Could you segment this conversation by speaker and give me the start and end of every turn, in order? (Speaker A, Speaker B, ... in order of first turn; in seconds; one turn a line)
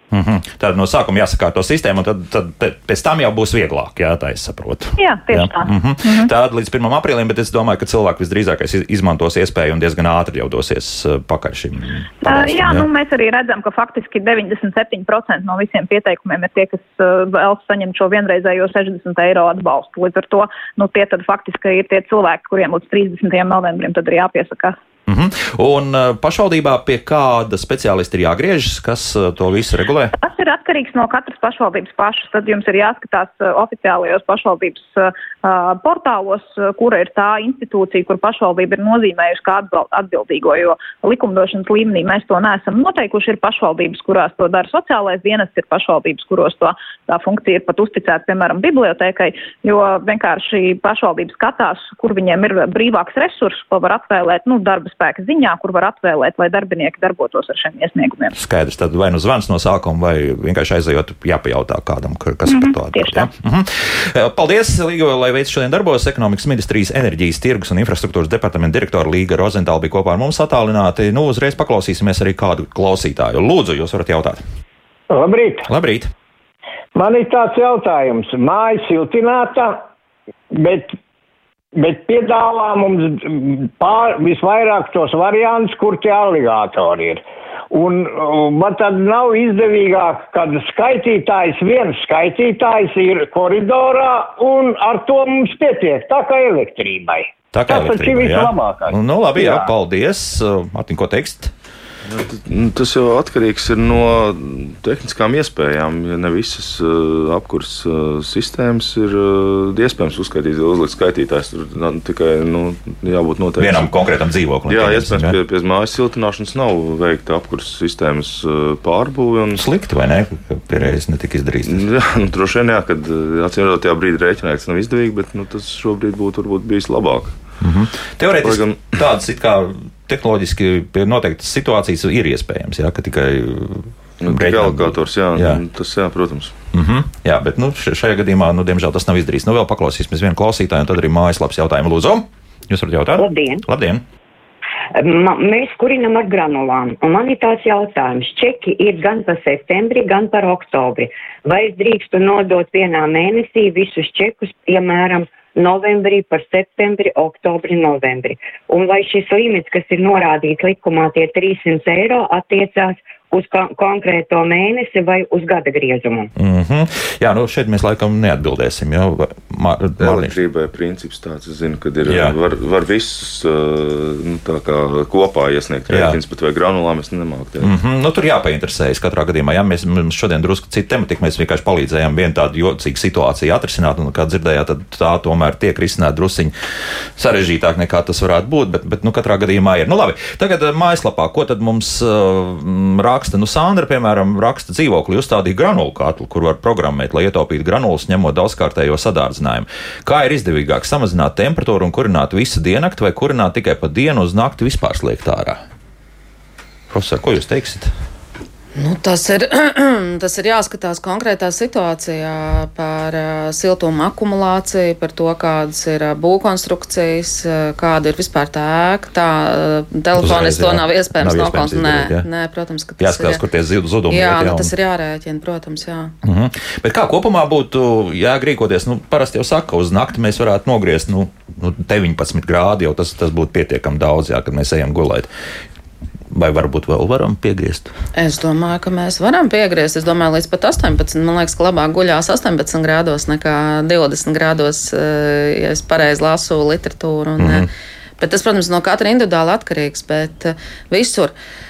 Speaker A: 0.1-12.9
Speaker B: 5.0-6.3
Speaker B: 12.2-24.8
Speaker A: 25.1-30.1
Speaker B: 30.2-58.3
Speaker A: 58.4-74.4
Speaker B: 62.5-63.3
Speaker C: 75.1-75.7
Speaker A: 75.7-76.1
Speaker C: 76.9-79.8
Speaker C: 80.5-81.0
Speaker C: 81.8-99.7
Speaker A: 97.5-101.5
Speaker D: 102.0-113.9
Speaker A: 113.6-115.4
Speaker D: 114.7-119.6
Speaker A: 119.5-121.8
Speaker D: 121.7-127.4
Speaker A: 127.6-135.6
Speaker D: 128.4-129.0
Speaker D: 134.2-136.5
Speaker A: 136.7-144.0
Speaker E: 143.2-143.6
Speaker E: 144.9-166.3
Speaker A: 166.3-170.4
Speaker D: 170.0-177.8
Speaker A: 172.1-172.3
Speaker A: 175.9-176.2
Speaker A: 177.6-186.5
Speaker A: 187.2-205.6
Speaker A: 206.9-207.9
Speaker F: 208.8-223.4
Speaker A: 220.2-222.3
Speaker A: 223.0-224.7
Speaker F: 224.1-226.1
Speaker A: 226.2-235.3
Speaker A: 236.3-237.9
Speaker F: 238.1-247.7
Speaker A: 247.4-247.7
Speaker F: 248.2-251.3